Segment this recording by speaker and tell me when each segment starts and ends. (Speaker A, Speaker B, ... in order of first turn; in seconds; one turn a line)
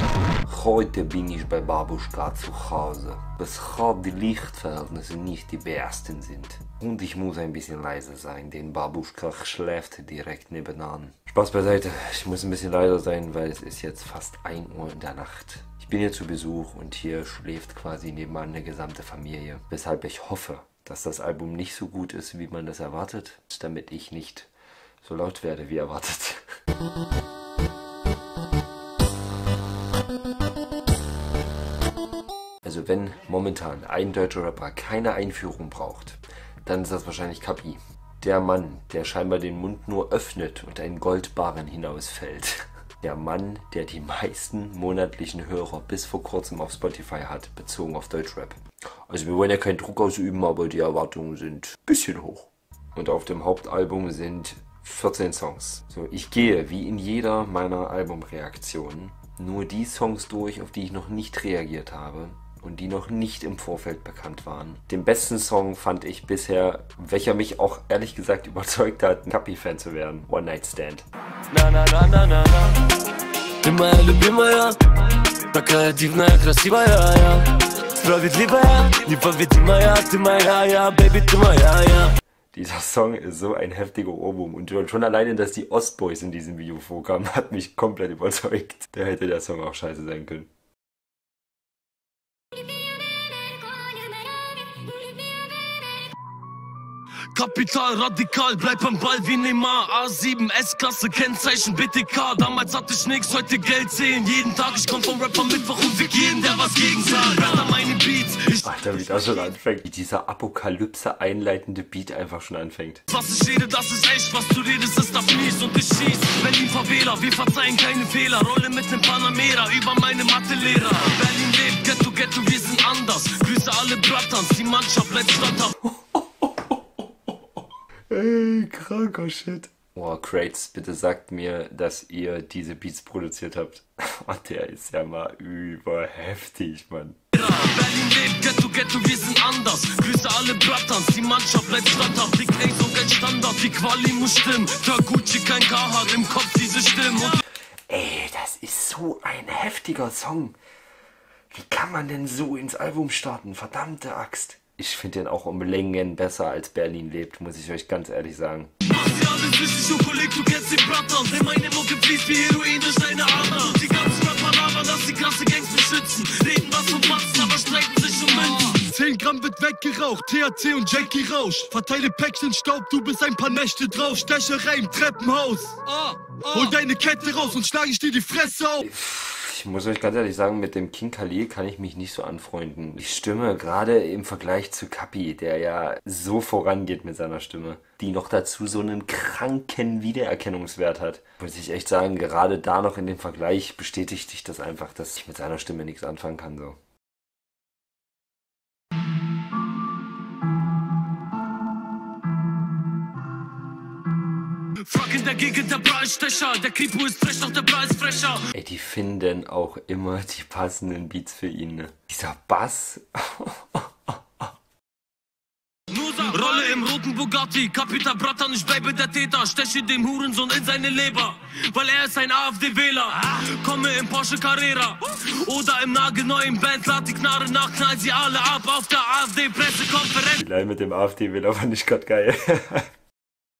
Speaker A: 0.4-24.5
Speaker A: 25.0-26.4
Speaker A: 32.6-71.0
Speaker B: 71.5-72.9
Speaker B: 73.6-74.8
Speaker B: 75.5-82.2
Speaker A: 82.5-90.5
Speaker B: 97.3-109.5
Speaker A: 108.6-113.0
Speaker B: 113.1-125.7
Speaker A: 125.8-126.8
Speaker A: 128.1-137.2
Speaker B: 137.3-147.4
Speaker A: 147.9-150.6
Speaker A: 151.5-158.7
Speaker B: 158.8-168.8
Speaker C: 168.6-178.8
Speaker A: 178.8-196.8
Speaker B: 204.8-208.5
Speaker A: 208.5-214.5
Speaker B: 215.9-230.4
Speaker A: 230.4-232.9